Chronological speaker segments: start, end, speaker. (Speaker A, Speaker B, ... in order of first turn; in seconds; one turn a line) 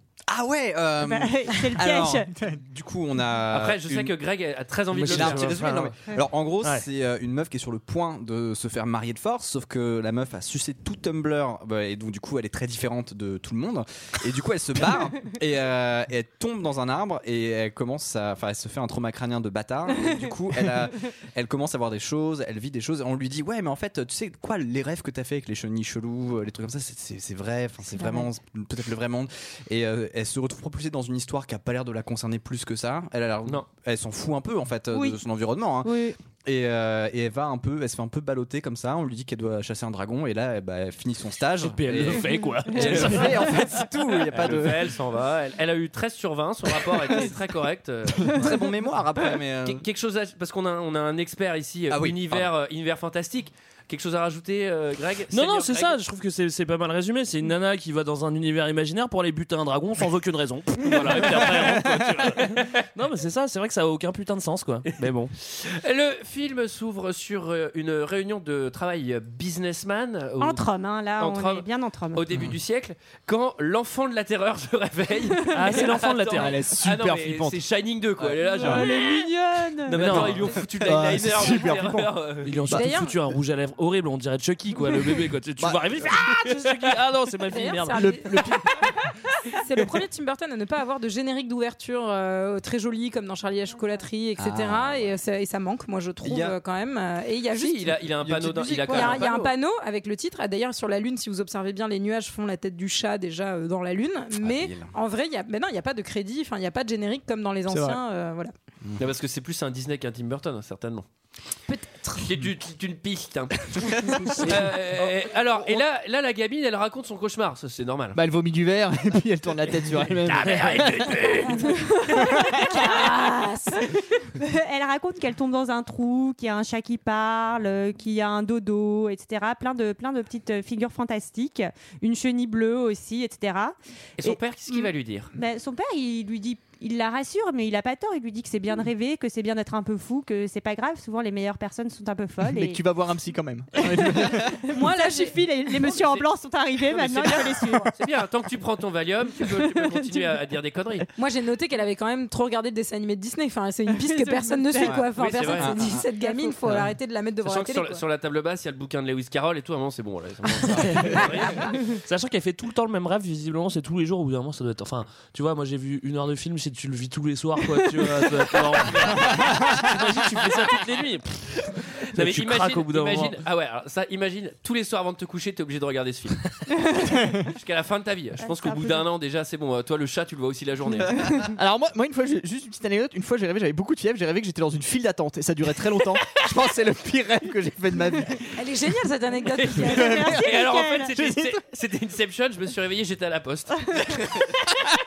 Speaker A: 0.3-4.1
Speaker B: 1.0-2.3
Speaker C: 3.5-5.6
Speaker D: 4.9-5.9
Speaker A: 5.0-44.8
Speaker B: 28.0-28.3
Speaker B: 34.9-35.2
Speaker B: 35.8-36.1
Speaker D: 41.6-43.5
Speaker E: 43.2-44.8
Speaker C: 44.3-48.4
Speaker A: 48.3-49.8
Speaker C: 49.6-56.0
Speaker A: 51.9-52.5
Speaker D: 55.3-65.3
Speaker C: 60.8-61.8
Speaker C: 62.4-62.7
Speaker C: 64.9-70.7
Speaker B: 70.4-72.2
Speaker C: 71.2-79.2
Speaker D: 75.5-76.6
Speaker E: 76.3-77.6
Speaker B: 78.4-80.3
Speaker C: 79.8-82.6
Speaker D: 79.9-80.5
Speaker E: 80.7-82.9
Speaker D: 82.4-88.0
Speaker F: 82.7-83.2
Speaker E: 85.6-86.0
Speaker F: 87.5-98.0
Speaker E: 87.9-88.7
Speaker A: 94.4-95.2
Speaker A: 96.2-96.6
Speaker C: 97.5-99.5
Speaker A: 98.2-99.2
Speaker E: 98.5-99.0
Speaker F: 98.9-108.5
Speaker A: 104.3-104.9
Speaker E: 107.7-108.0
Speaker C: 109.0-111.0
Speaker F: 111.7-112.3
Speaker C: 112.2-118.2
Speaker E: 114.3-114.6
Speaker E: 118.1-121.1
Speaker C: 120.2-121.8
Speaker D: 120.5-121.2
Speaker F: 121.6-123.9
Speaker B: 122.8-123.3
Speaker B: 124.4-142.8
Speaker C: 134.2-135.3
Speaker E: 142.4-144.6
Speaker B: 143.8-147.9
Speaker F: 144.7-146.1
Speaker C: 146.9-151.1
Speaker B: 149.5-150.3
Speaker F: 151.2-158.0
Speaker B: 153.9-156.6
Speaker C: 155.1-155.8
Speaker A: 155.6-156.1
Speaker C: 157.4-161.6
Speaker D: 160.8-173.4
Speaker C: 172.1-176.7
Speaker C: 177.4-181.3
Speaker B: 178.4-179.0
Speaker E: 181.3-188.5
Speaker F: 188.6-190.2
Speaker C: 189.6-194.5
Speaker E: 189.8-190.6
Speaker B: 189.9-191.1
Speaker E: 191.1-191.6